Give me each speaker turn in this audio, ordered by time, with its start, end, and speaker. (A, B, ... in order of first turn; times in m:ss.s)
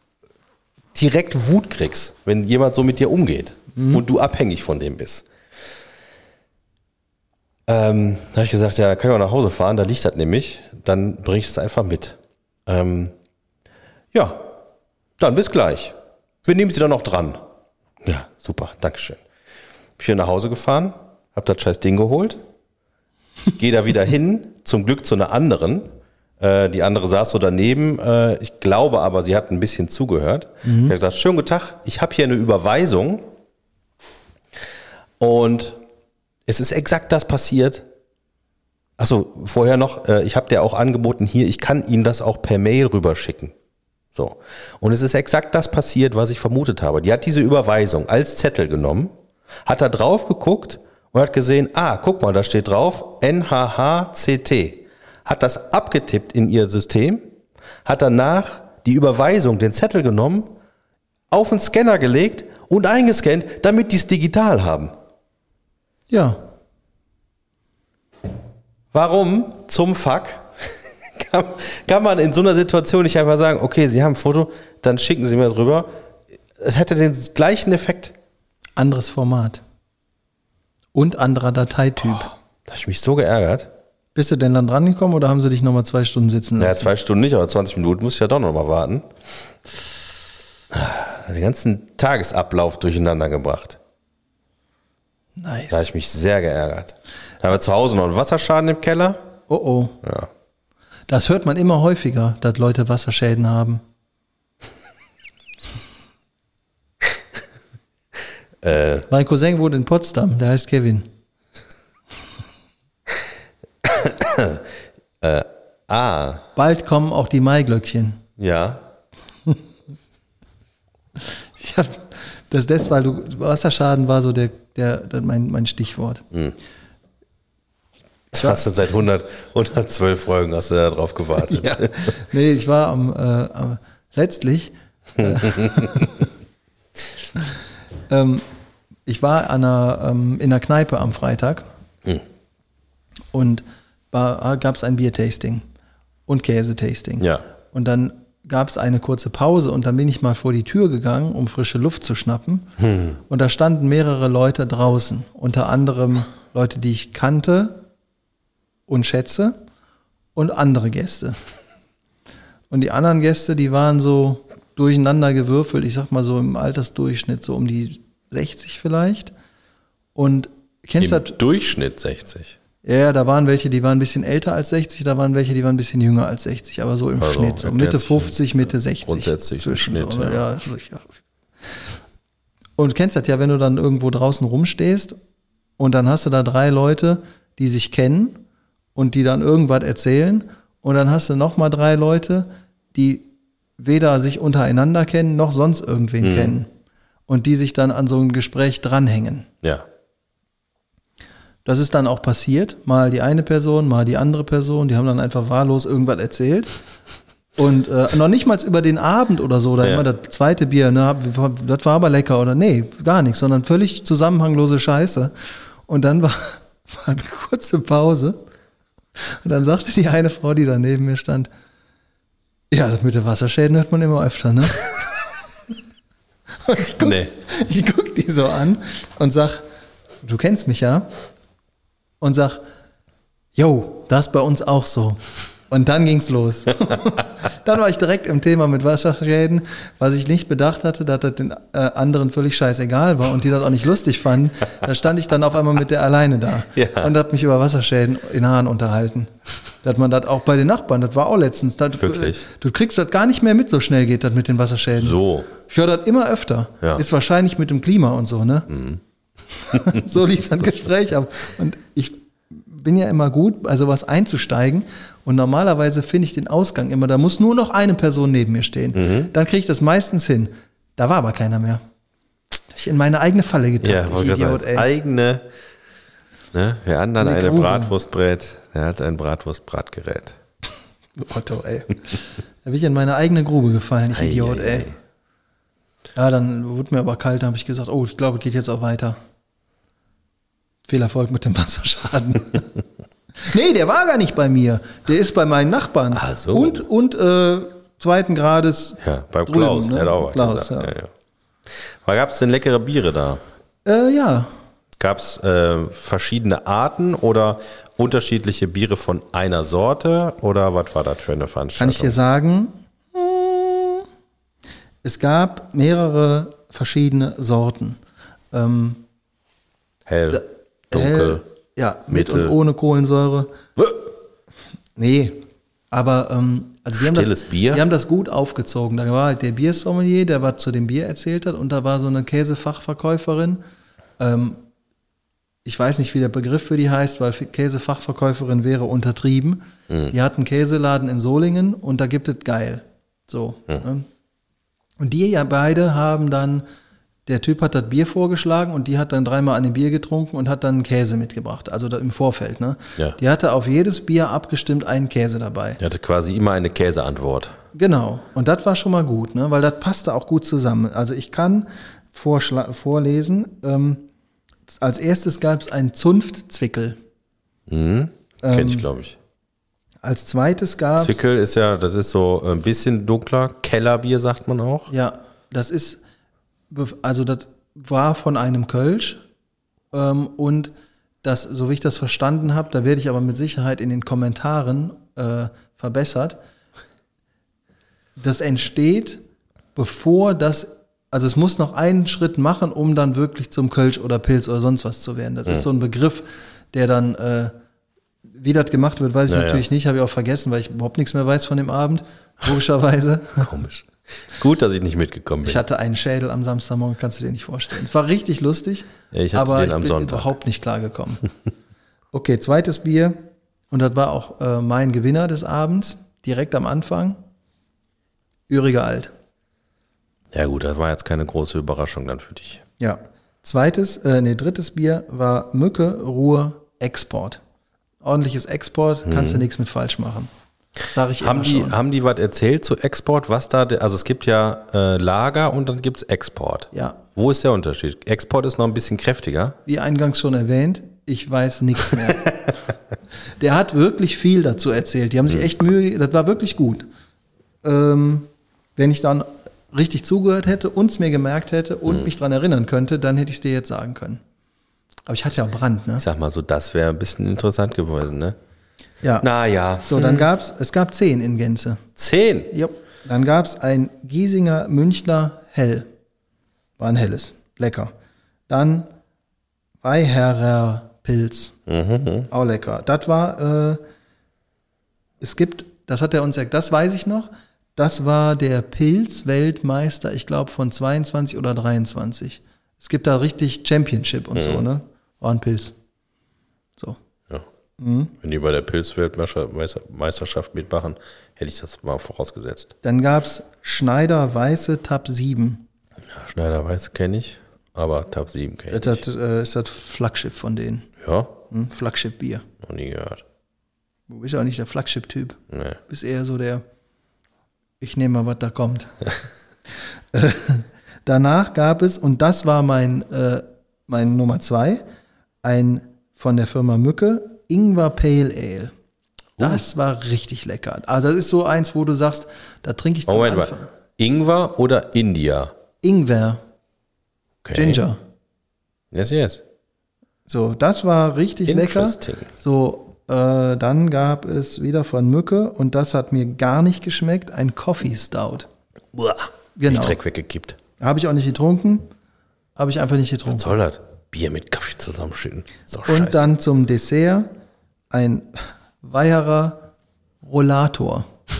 0:00.9-0:05.2 A
0:03.8-0:04.0 B
0:07.7-0:13.1 A
0:14.1-0:14.5 A
0:15.2-0:17.4 A
0:18.0-0:19.2 A
0:20.0-0:22.4 A
0:23.6-0:33.3 A
0:30.6-0:30.9 B
0:35.2-0:35.8 A
0:36.5-0:37.9 A
0:39.0-0:43.5 A
0:44.1-0:49.1 A
0:49.6-0:57.3 A
0:57.8-1:00.5 A
1:01.3-1:04.9 A
1:06.1-1:06.4 B
1:08.9-1:10.5 A
1:11.1-1:15.9 A
1:16.6-1:18.1 A
1:18.8-1:19.6 B
1:20.9-1:22.3 B
1:22.2-1:23.7 A
1:24.1-1:26.9 B
1:26.6-1:29.1 A
1:30.7-1:33.8 A
1:35.4-1:35.9 B
1:35.7-1:39.3 A
1:39.5-1:40.0 B
1:40.0-1:40.3 A
1:41.1-1:43.8 B
1:48.6-1:49.1 A
1:49.1-1:51.1 B
1:53.8-1:54.6 A
1:55.2-1:56.4 A
1:56.6-1:58.2 B
1:58.4-1:58.8 A
2:01.2-2:06.2 B
2:08.3-2:12.1 A
2:08.4-2:08.6 B
2:11.4-2:16.2 B
2:15.2-2:16.1 A
2:18.1-2:18.4 B
2:19.0-2:21.7 B
2:23.3-2:25.6 B
2:26.3-2:32.7 B
2:32.8-2:33.2 A
2:33.3-2:37.8 B
2:38.9-2:39.6 B
2:40.3-2:41.4 B
2:42.7-2:49.3 B
2:50.1-2:51.3 B
2:51.0-2:52.6 A
2:52.8-3:01.1 B
2:57.2-2:58.4 A
2:59.0-3:00.4 A
3:02.8-3:05.2 B
3:05.8-3:08.4 B
3:09.0-3:16.7 B
3:16.2-3:16.6 A
3:17.3-3:19.5 B
3:21.6-3:26.7 B
3:27.6-3:35.3 B
3:35.9-3:38.4 B
3:39.2-3:41.5 B
3:42.7-3:44.8 B
3:46.6-3:49.6 B
3:47.0-3:47.3 A
3:50.2-3:51.1 B
3:52.2-3:52.6 B
3:53.6-4:09.3 B
4:06.7-4:07.1 A
4:09.8-4:18.7 B
4:12.0-4:12.4 A
4:15.0-4:15.5 A
4:18.7-4:19.0 A
4:19.6-4:31.8 B
4:19.7-4:20.0 A
4:28.9-4:29.3 A
4:32.7-4:34.9 B
4:33.8-4:35.4 A
4:36.5-4:40.4 A
4:37.2-4:37.9 B
4:41.2-4:44.9 B
4:44.1-4:45.0 A
4:46.2-4:49.2 B
4:50.9-4:52.7 B
4:53.4-5:00.9 B
4:56.1-4:56.8 A
4:59.0-5:01.1 A
5:02.0-5:03.4 A
5:03.8-5:04.5 B
5:05.0-5:12.2 A
5:11.8-5:14.0 B
5:15.0-5:18.0 B
5:18.5-5:19.0 B
5:20.0-5:21.4 A
5:20.3-5:23.5 B
5:22.1-5:22.6 A
5:25.0-5:33.6 B
5:26.9-5:27.8 A
5:34.2-5:34.6 B
5:35.6-5:44.1 B
5:45.0-5:46.6 B
5:47.2-5:55.8 B
5:55.8-5:57.6 A
5:57.7-6:04.0 B
6:04.7-6:07.0 B
6:07.7-6:09.2 A
6:08.4-6:08.9 B
6:10.0-6:11.2 B
6:11.0-6:14.9 A
6:14.9-6:16.0 B
6:16.7-6:19.2 B
6:19.9-6:26.4 B
6:28.2-6:29.2 B
6:29.7-6:37.5 B
6:38.3-6:43.5 B
6:39.3-6:39.6 A
6:43.4-6:45.6 A
6:45.4-6:51.2 B
6:49.1-6:50.3 A
6:52.1-6:57.2 B
6:58.5-6:59.1 B
7:00.3-7:02.6 A
7:02.8-7:07.4 B
7:08.0-7:10.3 B
7:09.0-7:09.4 A
7:10.9-7:11.8 B
7:11.2-7:19.6 A
7:16.7-7:17.0 B
7:19.6-7:22.3 B
7:23.4-7:26.9 B
7:27.6-7:34.2 B
7:35.1-7:36.0 B
7:36.0-7:38.4 A
7:39.0-7:39.3 B
7:39.2-7:40.3 A
7:39.8-7:41.8 B
7:42.0-7:42.5 A
7:42.5-7:45.9 B
7:46.8-7:47.9 B
7:48.5-7:48.9 B
7:49.8-7:51.5 B
7:51.7-7:52.3 A
7:52.3-7:53.8 B
7:55.2-8:05.7 B
8:04.3-8:04.7 A
8:07.8-8:08.1 B
8:08.2-8:12.7 A
8:12.8-8:15.6 B
8:16.1-8:19.0 A
8:18.7-8:20.9 B
8:21.0-8:21.3 A
8:21.5-8:22.4 B
8:22.6-8:23.2 A
8:24.1-8:26.6 B
8:25.5-8:25.8 A
8:27.8-8:28.9 B
8:30.1-8:34.8 B
8:35.4-8:38.7 B
8:39.4-8:39.6 A
8:39.4-8:43.7 B
8:43.1-8:45.5 A
8:45.8-8:46.4 B
8:47.4-8:47.8 A
8:47.5-8:48.0 B
8:48.9-8:49.4 A
8:50.3-8:58.5 B
8:51.4-8:52.3 A
8:58.9-9:00.6 A
8:59.6-9:00.0 B
9:00.8-9:01.9 B
9:02.6-9:03.5 B
9:03.3-9:06.3 A
9:05.9-9:07.3 B
9:07.9-9:09.7 B
9:10.2-9:11.1 B